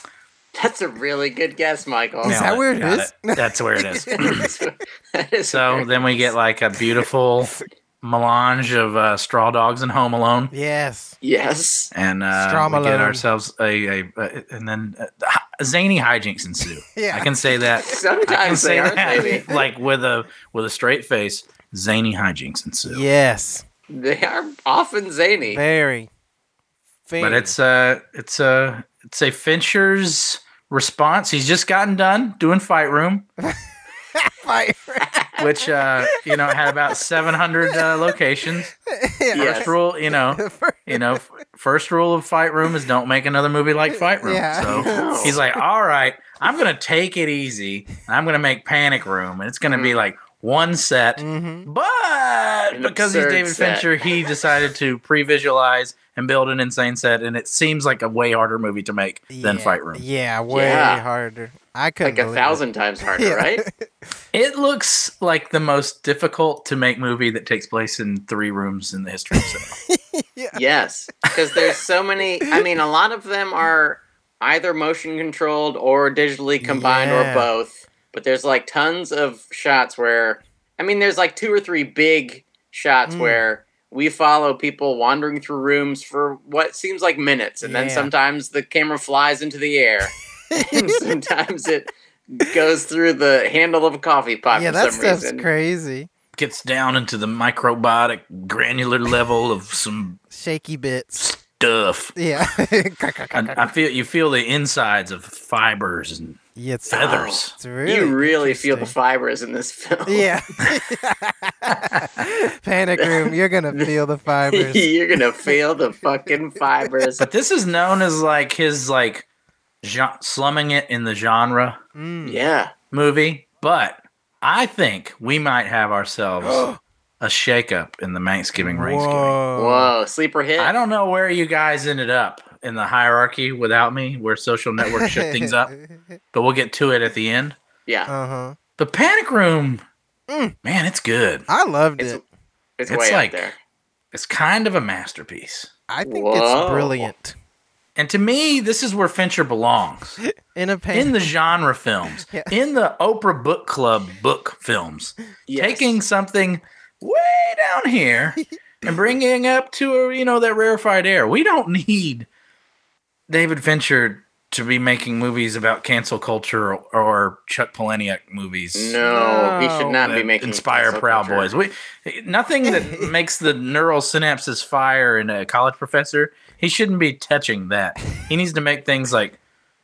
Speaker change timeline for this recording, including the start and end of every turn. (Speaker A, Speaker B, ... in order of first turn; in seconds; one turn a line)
Speaker A: 0.5-2.4
Speaker B: 2.2-4.5
Speaker C: 2.2-4.5
Speaker A: 4.2-6.3
Speaker C: 5.5-10.5
Speaker B: 10.5-11.2
Speaker A: 11.2-11.9
Speaker C: 11.9-23.1
Speaker B: 12.3-13.2
Speaker B: 16.9-18.0
Speaker A: 17.8-19.5
Speaker B: 19.1-19.7
Speaker B: 22.9-23.6
Speaker A: 23.9-25.6
Speaker B: 25.5-26.1
Speaker B: 27.1-27.5
Speaker C: 27.2-33.2
Speaker B: 34.1-37.0
Speaker A: 35.0-35.4
Speaker C: 35.4-38.7
Speaker B: 37.6-41.2
Speaker A: 39.3-39.7
Speaker C: 39.3-60.0
Speaker B: 43.9-45.6
Speaker A: 44.6-45.4
Speaker A: 49.7-50.0
Speaker B: 51.2-51.7
Speaker A: 52.7-53.9
Speaker B: 59.3-62.6
Speaker A: 60.5-61.0
Speaker A: 62.0-63.6
Speaker B: 63.1-63.9
Speaker C: 64.3-69.8
Speaker B: 69.3-70.6
Speaker A: 70.5-95.5
Speaker B: 76.6-77.5
Speaker B: 83.0-83.4
Speaker B: 87.6-88.1
Speaker B: 90.5-91.0
Speaker B: 94.5-96.1
Speaker C: 96.3-100.2
Speaker B: 100.3-101.3
Speaker C: 101.2-102.1
Speaker B: 102.1-103.7
Speaker C: 103.3-106.4
Speaker B: 106.5-108.9
Speaker A: 106.9-110.3
Speaker C: 106.9-107.5
Speaker B: 110.1-115.5
Speaker A: 113.0-113.9
Speaker A: 114.5-117.3
Speaker C: 117.2-119.2
Speaker C: 119.8-121.8
Speaker B: 121.9-122.4
Speaker A: 122.2-122.7
Speaker C: 122.9-126.7
Speaker B: 126.4-126.8
Speaker C: 127.2-129.4
Speaker B: 128.6-129.9
Speaker A: 129.5-130.7
Speaker C: 130.6-135.7
Speaker B: 134.8-136.0
Speaker C: 136.3-137.5
Speaker A: 137.8-138.1
Speaker B: 138.1-138.6
Speaker C: 138.8-139.8
Speaker B: 140.3-140.6
Speaker C: 140.6-141.4
Speaker B: 141.5-142.2
Speaker A: 142.0-142.2
Speaker A: 142.8-143.6
Speaker C: 142.9-143.4
Speaker C: 144.1-145.7
Speaker B: 145.9-147.3
Speaker A: 146.1-147.1
Speaker C: 147.9-150.2
Speaker B: 150.2-151.2
Speaker C: 150.9-162.3
Speaker B: 152.2-152.5
Speaker A: 155.5-155.9
Speaker C: 163.3-168.9
Speaker A: 168.7-171.5
Speaker B: 169.0-170.1
Speaker C: 170.0-179.4
Speaker B: 172.6-173.1